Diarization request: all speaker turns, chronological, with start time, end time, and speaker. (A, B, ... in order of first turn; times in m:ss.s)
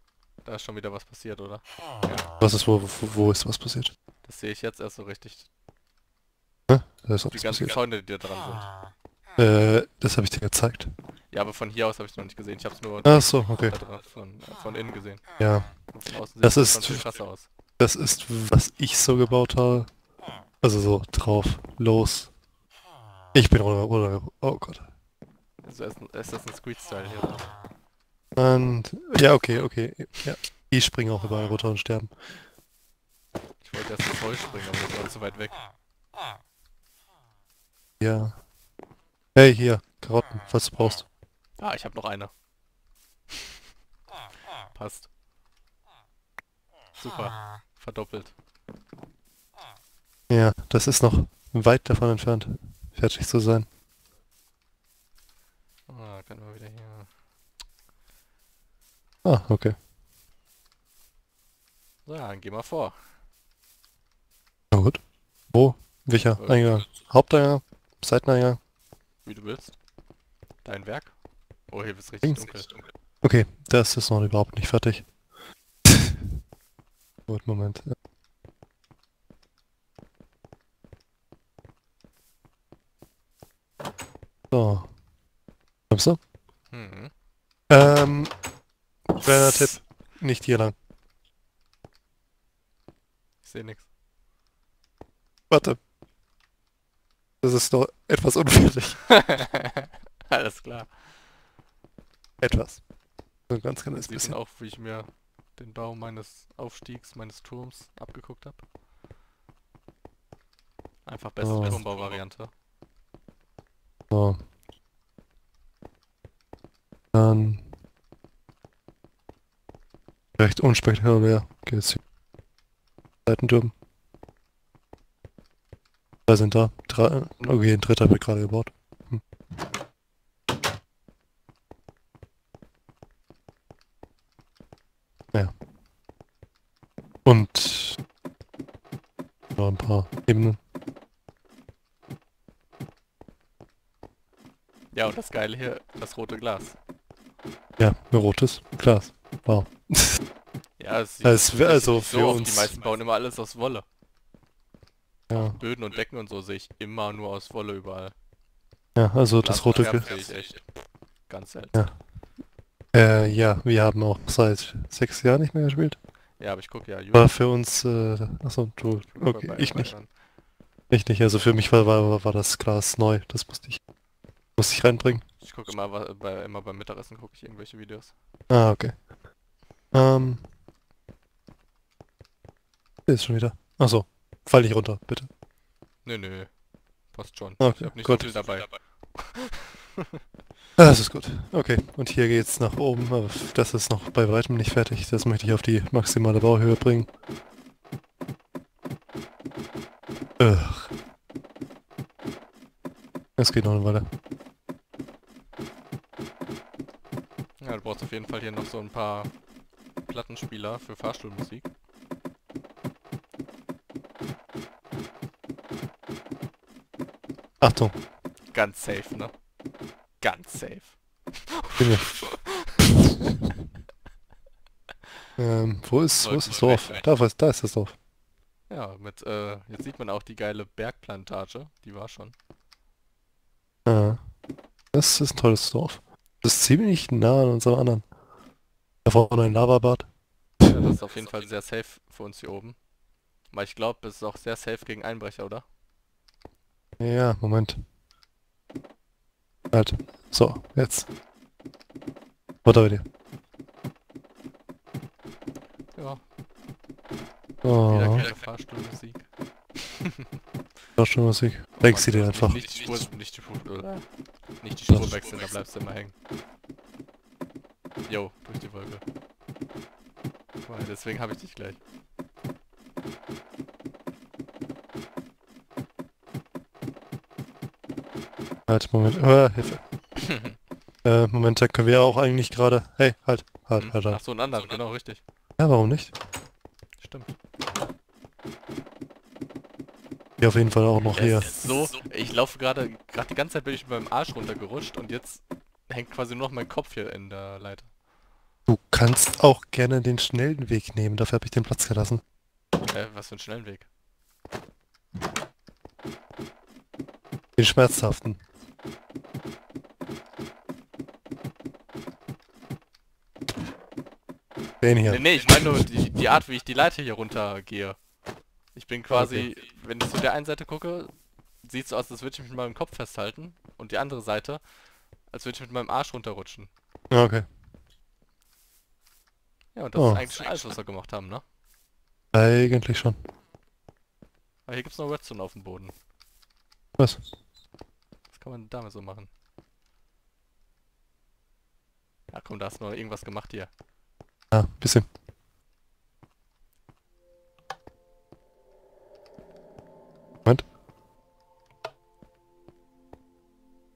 0:00.4-0:02.3 A
0:02.4-0:03.9 B
0:04.2-0:05.5 A
0:06.7-0:07.8 B
0:07.3-0:08.7 A
0:09.4-0:10.9 B
0:11.3-0:17.5 A
0:13.0-0:13.8 B
0:15.4-0:17.1 B
0:17.8-0:19.9 B
0:20.6-0:22.3 B
0:23.3-0:24.9 B
0:25.6-0:27.5 A
0:28.4-0:32.4 B
0:33.6-0:35.6 A
0:38.0-0:38.4 B
0:39.4-0:41.1 B
0:41.6-0:42.3 A
0:44.7-0:45.1 A
0:47.0-0:48.3 A
0:50.3-0:53.7 B
0:55.9-0:57.1 A
0:59.2-0:59.8 B
1:02.1-1:03.0 A
1:04.7-1:08.6 B
1:06.4-1:06.8 A
1:09.2-1:09.8 A
1:10.6-1:12.8 A
1:13.2-1:15.1 B
1:15.9-1:16.2 B
1:17.3-1:17.9 B
1:24.5-1:25.0 B
1:25.9-1:26.2 B
1:26.7-1:27.1 A
1:27.7-1:28.3 B
1:29.2-1:30.7 B
1:33.4-1:33.9 A
1:35.5-1:35.8 B
1:37.4-1:39.2 B
1:39.1-1:41.0 A
1:42.4-1:42.8 B
1:43.5-1:44.4 B
1:44.0-1:48.6 A
1:51.0-1:52.5 A
1:51.4-1:51.8 B
1:54.1-1:54.4 B
1:57.1-1:57.7 B
2:00.4-2:02.0 B
2:03.3-2:03.7 B
2:06.3-2:09.2 B
2:17.2-2:18.0 B
2:19.6-2:20.6 B
2:24.9-2:26.8 A
2:27.8-2:30.2 B
2:30.8-2:33.8 A
2:31.2-2:32.7 B
2:35.3-2:35.6 B
2:35.3-2:38.2 A
2:39.0-2:40.1 B
2:39.4-2:40.6 A
2:41.3-2:41.9 A
2:42.9-2:46.0 B
2:46.4-2:47.4 A
2:47.1-2:50.0 B
2:49.2-2:50.1 A
2:50.9-2:53.8 B
2:54.6-2:55.2 B
2:55.4-2:58.1 A
2:58.5-2:59.1 B
2:59.9-3:00.5 B
3:03.1-3:05.3 B
3:06.0-3:06.5 A
3:07.1-3:09.5 A
3:07.6-3:08.4 B
3:10.8-3:17.1 B
3:20.4-3:20.9 B
3:23.4-3:24.1 B
3:27.6-3:29.3 A
3:30.0-3:31.7 A
3:37.6-3:38.0 B
3:38.5-3:39.3 A
3:40.2-3:42.7 A
3:41.8-3:42.9 B
3:45.4-3:48.0 B
3:46.2-3:47.0 A
3:48.7-3:52.4 A
3:53.9-3:54.2 B
3:54.9-3:58.1 B
3:59.0-4:00.1 B
4:00.6-4:02.8 A
4:03.5-4:05.6 A
4:07.0-4:07.8 B
4:09.7-4:11.1 B
4:12.6-4:13.0 B
4:15.9-4:16.2 A
4:17.6-4:18.3 B
4:17.9-4:19.3 A
4:19.8-4:20.1 A
4:21.0-4:22.6 B
4:21.8-4:26.1 A
4:28.1-4:29.0 A
4:30.6-4:31.8 A
4:38.7-4:39.8 B
4:40.2-4:40.6 A
4:41.0-4:44.2 B
4:43.8-4:45.2 A
4:45.6-4:46.1 B
4:47.0-4:47.4 A
4:50.4-4:51.9 B
4:51.1-4:57.9 A
4:58.7-5:02.2 B
5:02.9-5:03.9 A
5:07.6-5:08.4 B
5:14.8-5:15.3 B
5:15.1-5:18.0 A
5:18.7-5:24.6 A
5:19.1-5:19.5 B
5:25.3-5:26.7 A
5:27.1-5:27.4 B
5:29.8-5:31.4 A
5:30.0-5:30.3 B
5:32.3-5:33.2 B
5:34.7-5:35.9 A
5:38.3-5:39.3 A
5:42.3-5:43.7 A
5:44.5-5:45.1 B